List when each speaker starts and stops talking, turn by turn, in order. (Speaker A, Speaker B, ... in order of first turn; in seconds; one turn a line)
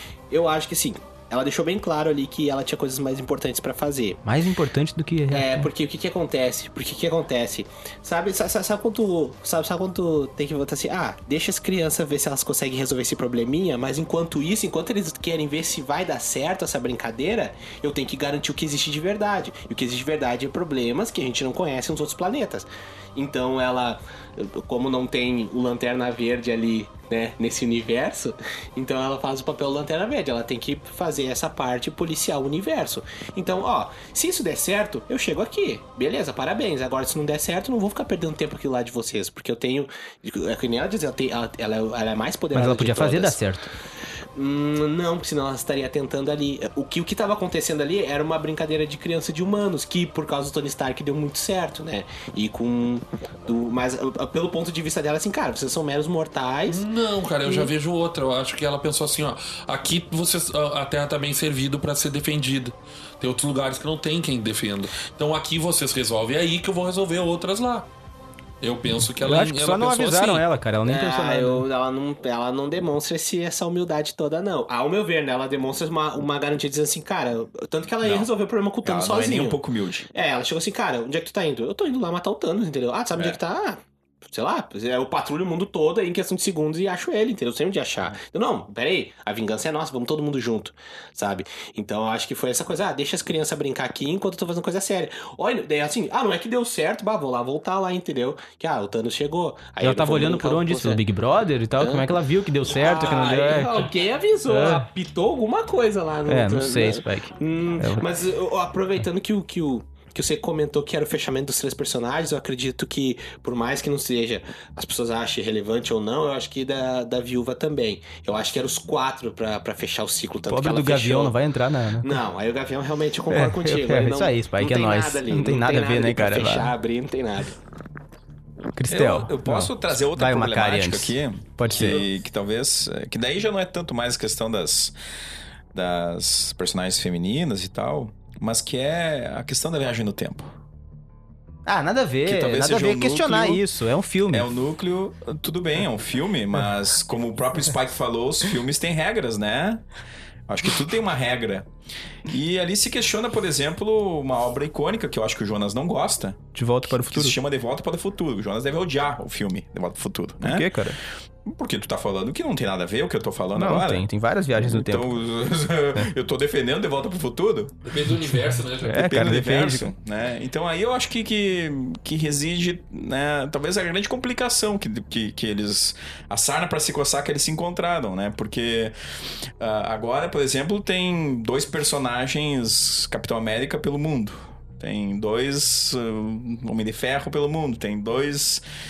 Speaker A: 0.3-4.2
Speaker B: 4.2-5.7
Speaker A: 5.3-43.4
Speaker B: 42.5-43.7
Speaker A: 44.3-56.8
Speaker C: 56.7-67.9
Speaker C: 68.6-70.4
Speaker B: 69.2-71.6
Speaker A: 70.8-79.6
Speaker D: 78.0-78.3
Speaker D: 78.8-80.1
Speaker A: 80.1-101.0
Speaker D: 83.1-83.4
Speaker B: 99.8-103.9
Speaker A: 101.8-121.4
Speaker B: 104.5-104.8
Speaker B: 106.3-108.1
Speaker B: 120.5-122.1
Speaker A: 122.0-127.5
Speaker B: 123.3-126.7
Speaker B: 128.8-132.1
Speaker D: 128.9-134.9
Speaker C: 131.7-131.9
Speaker D: 135.7-140.5
Speaker B: 141.7-144.5
Speaker D: 142.2-143.6
Speaker D: 144.3-149.8
Speaker D: 150.5-151.7
Speaker D: 152.2-160.7
Speaker B: 156.5-157.3
Speaker B: 160.4-161.0
Speaker D: 161.4-167.7
Speaker B: 163.6-165.2
Speaker C: 167.8-169.2
Speaker B: 168.8-169.9
Speaker D: 169.0-178.9
Speaker D: 179.6-188.6